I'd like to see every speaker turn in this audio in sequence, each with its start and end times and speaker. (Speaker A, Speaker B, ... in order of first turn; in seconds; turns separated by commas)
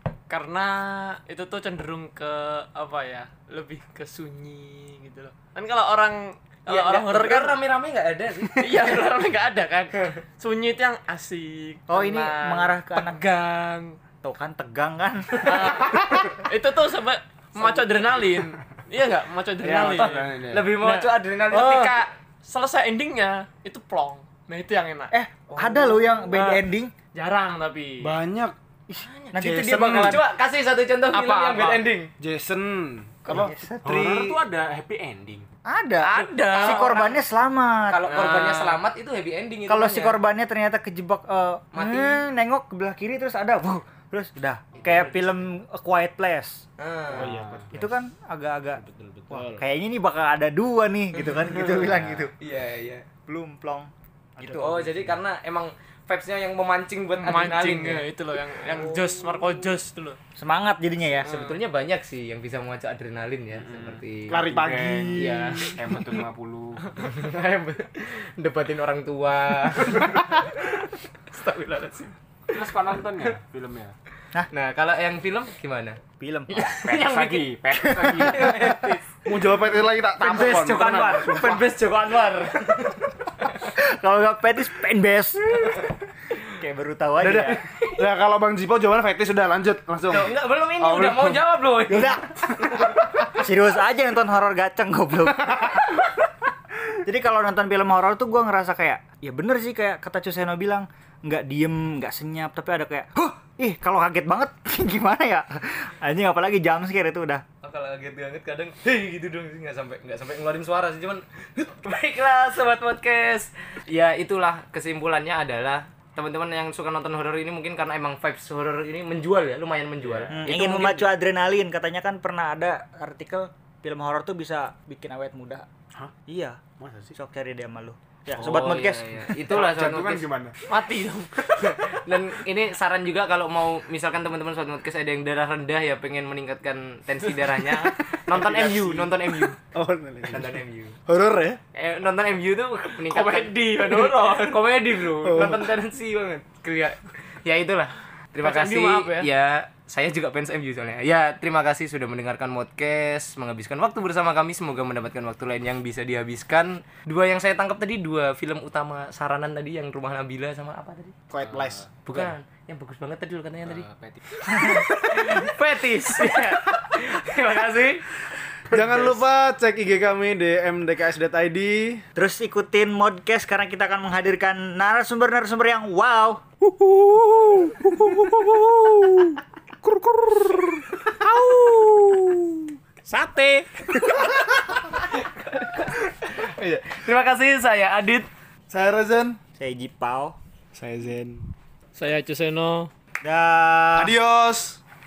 Speaker A: 0.3-7.6, Speaker B: 6.7-9.1, Speaker A: 8.4-14.0, Speaker C: 11.9-13.2, Speaker C: 14.2-15.7, Speaker A: 15.4-28.1, Speaker D: 19.6-20.7, Speaker B: 19.9-22.0, Speaker C: 25.1-26.9, Speaker D: 28.0-28.6, Speaker C: 28.9-30.2, Speaker D: 29.4-30.2, Speaker B: 30.0-32.1, Speaker A: 31.1-31.8, Speaker D: 32.2-34.4, Speaker C: 33.3-34.1, Speaker E: 33.8-35.5, Speaker C: 35.6-38.0, Speaker B: 36.0-37.2, Speaker A: 36.2-37.1, Speaker B: 37.9-40.2, Speaker A: 38.1-38.8, Speaker C: 39.7-46.6, Speaker B: 41.7-42.3, Speaker B: 46.8-47.4, Speaker D: 47.1-47.9, Speaker C: 47.7-52.3, Speaker D: 48.8-49.6, Speaker D: 51.6-52.0, Speaker B: 52.4-53.1, Speaker C: 53.3-54.7, Speaker D: 54.4-55.2, Speaker B: 54.5-58.0, Speaker A: 57.2-60.2, Speaker B: 58.6-59.1, Speaker C: 60.4-61.3, Speaker B: 61.2-64.4, Speaker A: 61.3-61.6, Speaker E: 63.6-67.0, Speaker D: 64.3-65.8, Speaker B: 65.2-66.0, Speaker B: 67.0-73.2, Speaker E: 72.5-74.0, Speaker B: 74.5-76.0, Speaker C: 76.2-76.7, Speaker B: 76.5-79.1, Speaker E: 76.8-78.5, Speaker C: 77.8-78.7, Speaker D: 79.3-81.7, Speaker B: 80.2-83.7, Speaker C: 83.6-85.8, Speaker C: 86.5-87.6, Speaker D: 87.2-91.5, Speaker B: 90.1-92.8, Speaker C: 91.9-92.2, Speaker C: 93.3-96.1, Speaker C: 96.9-107.4, Speaker B: 107.6-121.1, Speaker C: 120.3-125.7, Speaker C: 126.3-126.6, Speaker D: 126.8-127.2, Speaker C: 127.2-129.2, Speaker B: 128.3-130.3, Speaker E: 129.5-130.6, Speaker A: 130.7-131.3, Speaker B: 131.4-139.6, Speaker D: 137.7-141.6, Speaker B: 140.3-141.0, Speaker B: 141.7-161.2, Speaker A: 143.1-144.6, Speaker D: 145.2-145.6, Speaker A: 148.4-149.3, Speaker D: 161.3-162.3, Speaker E: 161.4-161.9, Speaker B: 162.1-163.9, Speaker E: 163.7-164.2, Speaker B: 164.4-168.1, Speaker D: 168.7-172.0, Speaker C: 172.2-176.4, Speaker D: 176.6-180.8, Speaker D: 181.4-182.4, Speaker A: 183.1-183.6, Speaker B: 184.0-188.3, Speaker D: 188.7-189.4, Speaker C: 189.6-190.4, Speaker E: 190.8-191.4, Speaker A: 191.9-192.9, Speaker C: 193.2-194.1, Speaker D: 194.0-194.8